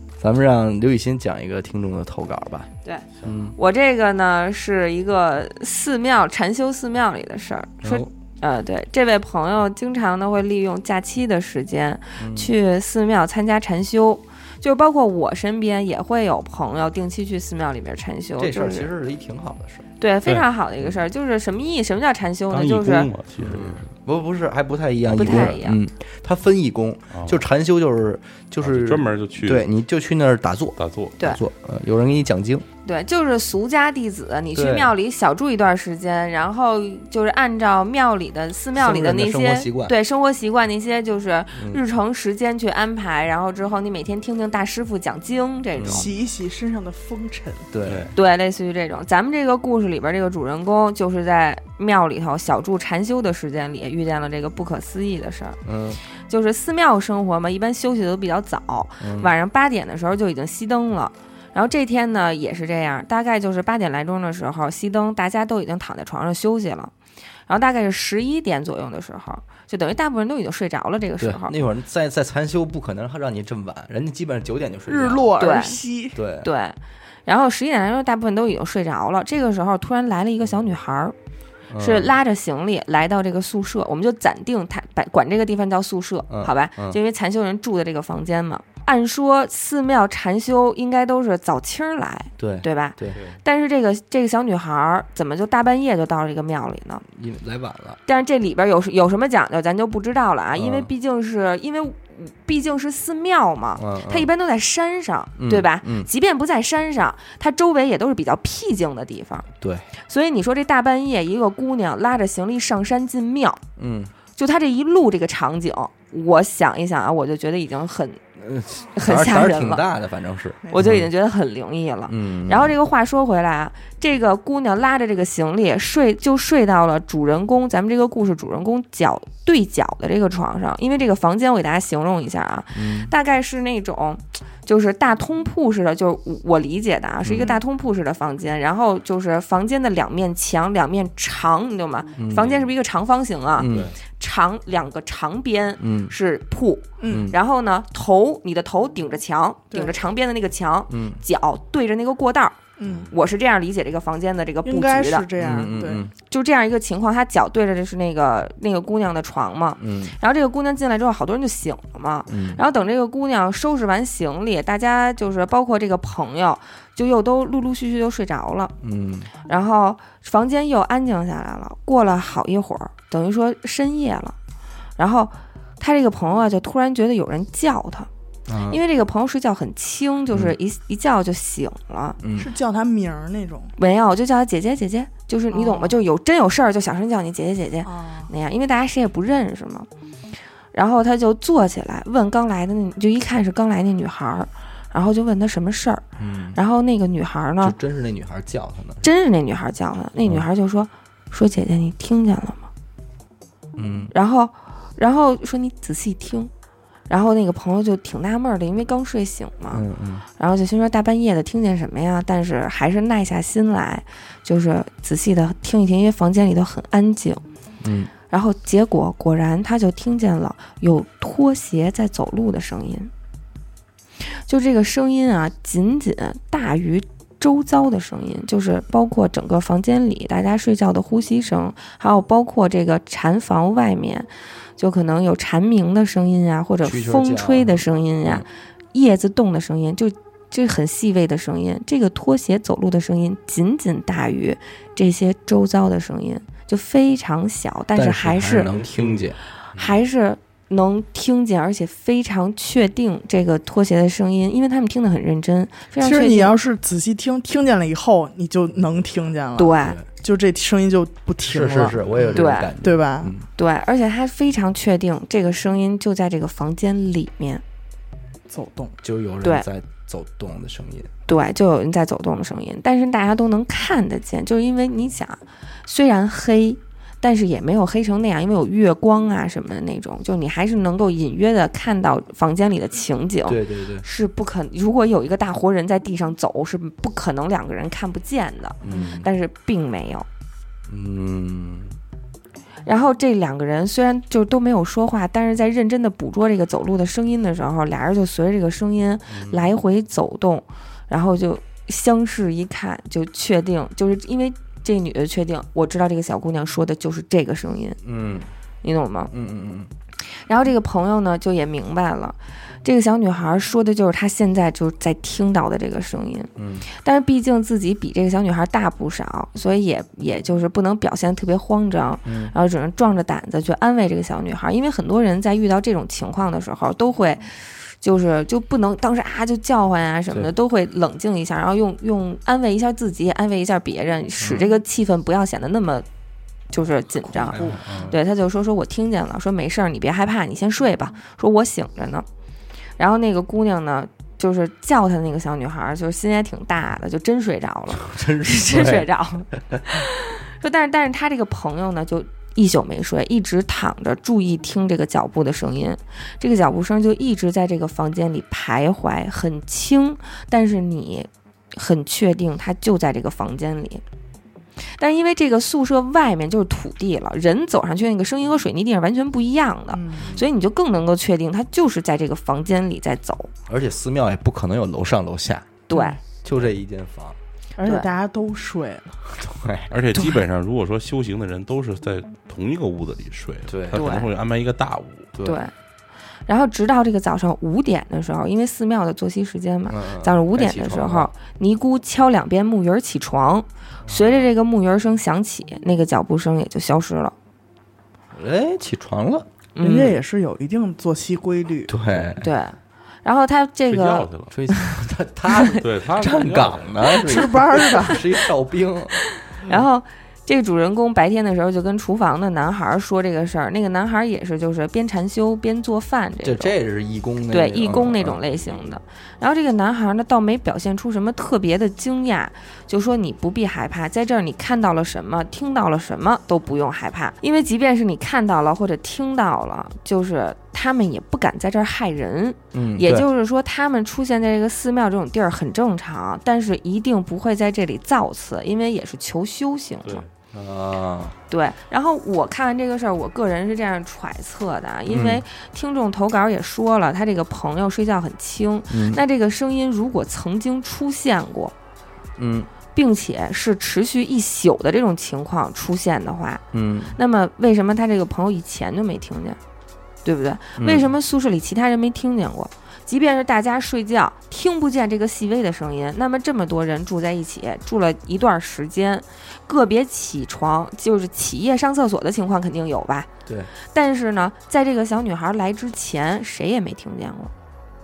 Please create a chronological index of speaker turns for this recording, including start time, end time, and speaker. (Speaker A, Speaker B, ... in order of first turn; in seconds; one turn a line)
Speaker A: 0.2-2.7
Speaker B: 2.8-18.9
Speaker A: 3.2-3.5
Speaker A: 7.8-8.1
Speaker A: 12.2-12.5
Speaker A: 18.4-19.9
Speaker B: 20.0-23.1
Speaker C: 22.5-23.9
Speaker A: 23.4-32.6
Speaker B: 25.1-25.8
Speaker C: 25.2-25.5
Speaker C: 27.1-27.4
Speaker C: 28.6-29.7
Speaker C: 30.8-31.2
Speaker B: 32.8-46.1
Speaker A: 34.5-34.9
Speaker A: 38.7-39.9
Speaker A: 41.5-41.8
Speaker A: 45.8-46.1
Speaker D: 45.9-47.7
Speaker A: 47.7-48.1
Speaker C: 47.8-48.1
Speaker B: 48.1-55.6
Speaker A: 55.6-56.0
Speaker B: 56.3-66.9
Speaker A: 59.0-59.3
Speaker B: 67.5-71.6
Speaker A: 71.2-75.3
Speaker D: 74.9-76.2
Speaker B: 75.4-75.8
Speaker A: 76.1-76.5
Speaker B: 76.4-81.1
Speaker A: 81.7-82.1
Speaker B: 81.8-97.0
Speaker A: 86.3-87.0
Speaker A: 92.4-93.2
Speaker A: 97.0-98.0
Speaker B: 98.1-109.5
Speaker A: 100.6-100.9
Speaker A: 103.8-104.3
Speaker A: 105.4-106.1
Speaker A: 109.6-109.9
Speaker B: 110.1-113.6
Speaker A: 113.8-114.1
Speaker B: 114.4-118.2
Speaker A: 118.4-121.1
Speaker B: 118.9-119.8
Speaker D: 120.6-120.9
Speaker B: 120.7-152.6
Speaker A: 122.1-122.8
Speaker A: 132.7-133.1
Speaker A: 137.2-137.6
Speaker A: 142.2-142.7
Speaker A: 143.5-143.9
Speaker C: 143.7-143.9
Speaker A: 145.8-146.1
Speaker D: 147.0-147.3
Speaker A: 147.1-147.4
Speaker D: 149.7-150.0
Speaker A: 150.9-151.2
Speaker D: 152.8-153.1
Speaker B: 153.1-168.7
Speaker D: 154.6-156.1
Speaker A: 155.4-156.1
Speaker A: 159.8-160.2
Speaker A: 162.3-162.6
Speaker A: 168.8-169.3
Speaker B: 169.5-174.3
Speaker B: 175.0-178.1
Speaker A: 178.5-178.8
Speaker B: 178.7-182.2
Speaker A: 180.3-180.6
Speaker A: 182.2-182.5
Speaker D: 182.4-183.7
Speaker B: 183.8-189.9
Speaker D: 185.5-186.0
Speaker D: 187.8-188.3
Speaker B: 190.7-197.8
Speaker A: 196.2-196.6
Speaker A: 197.6-199.1
Speaker B: 199.0-202.7
Speaker A: 203.8-204.1
Speaker B: 204.1-206.5
Speaker B: 207.1-209.8
Speaker A: 209.7-210.2
Speaker B: 210.4-217.4
Speaker A: 217.8-218.1
Speaker B: 218.3-223.1
Speaker B: 224.3-248.7
Speaker A: 236.8-238.4
Speaker A: 247.9-250.0
Speaker C: 248.8-249.2
Speaker B: 249.7-256.5
Speaker D: 256.0-263.3
Speaker B: 259.6-260.0
Speaker A: 259.8-260.1
Speaker A: 261.4-263.5
Speaker B: 262.3-262.7
Speaker B: 263.6-267.6
Speaker D: 268.5-268.9
Speaker A: 269.0-271.1
Speaker B: 271.3-290.2
Speaker A: 283.4-284.1
Speaker A: 288.8-289.3
Speaker A: 290.9-291.9
Speaker B: 292.9-308.0
Speaker A: 299.3-299.7
Speaker A: 308.0-308.5
Speaker B: 308.8-309.3
Speaker A: 309.3-309.9
Speaker B: 310.4-336.1
Speaker A: 316.6-316.9
Speaker A: 322.2-322.5
Speaker A: 334.4-334.7
Speaker B: 336.7-342.2
Speaker A: 337.2-338.2
Speaker B: 343.0-364.0
Speaker A: 347.9-349.1
Speaker B: 365.0-373.5
Speaker D: 369.9-370.3
Speaker A: 370.2-370.5
Speaker A: 373.7-377.4
Speaker B: 375.9-376.2
Speaker D: 377.8-379.2
Speaker B: 377.8-378.1
Speaker A: 379.3-380.3
Speaker C: 379.9-385.3
Speaker A: 383.7-384.2
Speaker B: 383.9-384.3
Speaker A: 385.3-385.6
Speaker B: 385.4-385.7
Speaker B: 386.5-397.3
Speaker A: 389.9-391.3
Speaker A: 394.0-394.5
Speaker A: 398.3-399.5
Speaker B: 399.8-400.2
Speaker D: 399.8-401.9
Speaker A: 401.9-402.5
Speaker B: 402.4-404.8
Speaker C: 403.9-404.5
Speaker A: 404.5-409.2
Speaker B: 405.5-405.8
Speaker C: 405.8-407.1
Speaker B: 407.0-408.5
Speaker D: 407.2-408.2
Speaker B: 409.2-416.8
Speaker A: 416.4-418.4
Speaker B: 417.5-440.2
Speaker C: 418.5-419.0
Speaker A: 432.7-433.3
Speaker A: 440.5-441.4
Speaker B: 441.5-451.7
Speaker A: 445.1-445.4
Speaker A: 448.9-449.2
Speaker A: 452.4-452.7
Speaker B: 452.9-456.6
Speaker A: 456.7-457.2
Speaker B: 457.1-459.6
Speaker B: 460.2-473.3
Speaker A: 460.8-461.1
Speaker A: 473.4-473.7
Speaker B: 473.9-477.5